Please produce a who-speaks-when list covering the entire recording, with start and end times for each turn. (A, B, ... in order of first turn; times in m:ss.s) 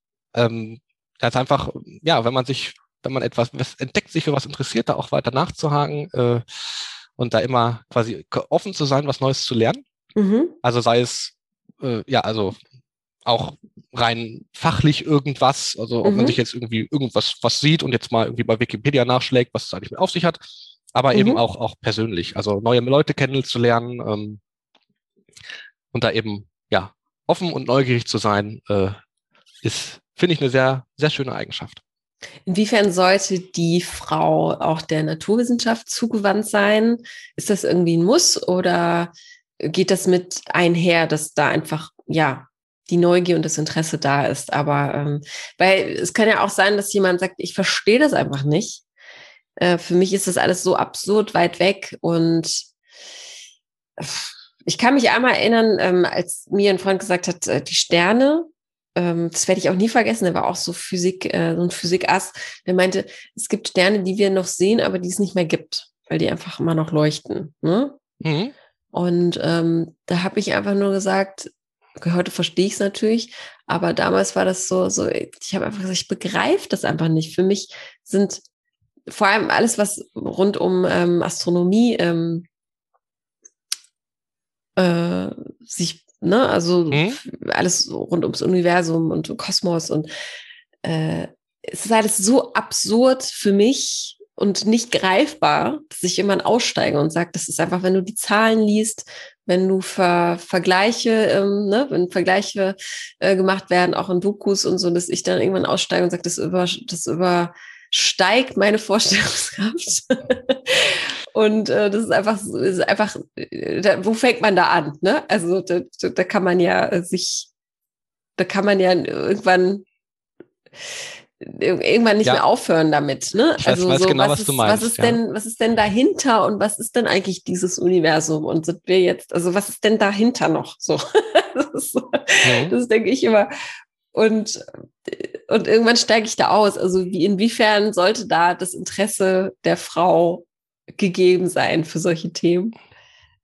0:00.3-0:09.8 A
0:10.2-0:10.5 B
0:10.6-0:12.6 A
0:13.2-0:20.4 A
0:16.0-0:16.4 B
0:20.9-0:24.4 A
0:21.1-0:21.4 B
0:25.9-0:29.0 A
0:29.6-0:31.8 A
0:32.5-0:48.8 B
0:49.6-0:52.7 B
0:54.0-1:08.0 B
1:08.2-1:08.5 A
1:08.9-1:18.4 B
1:19.1-1:22.4 B
1:24.8-1:30.1 B
1:26.9-1:27.2 A
1:30.8-1:57.5 B
1:58.4-1:59.8 B
2:01.4-2:13.5 B
2:03.6-2:05.2 A
2:12.4-2:12.7 A
2:14.1-2:20.4 B
2:21.0-2:22.7 B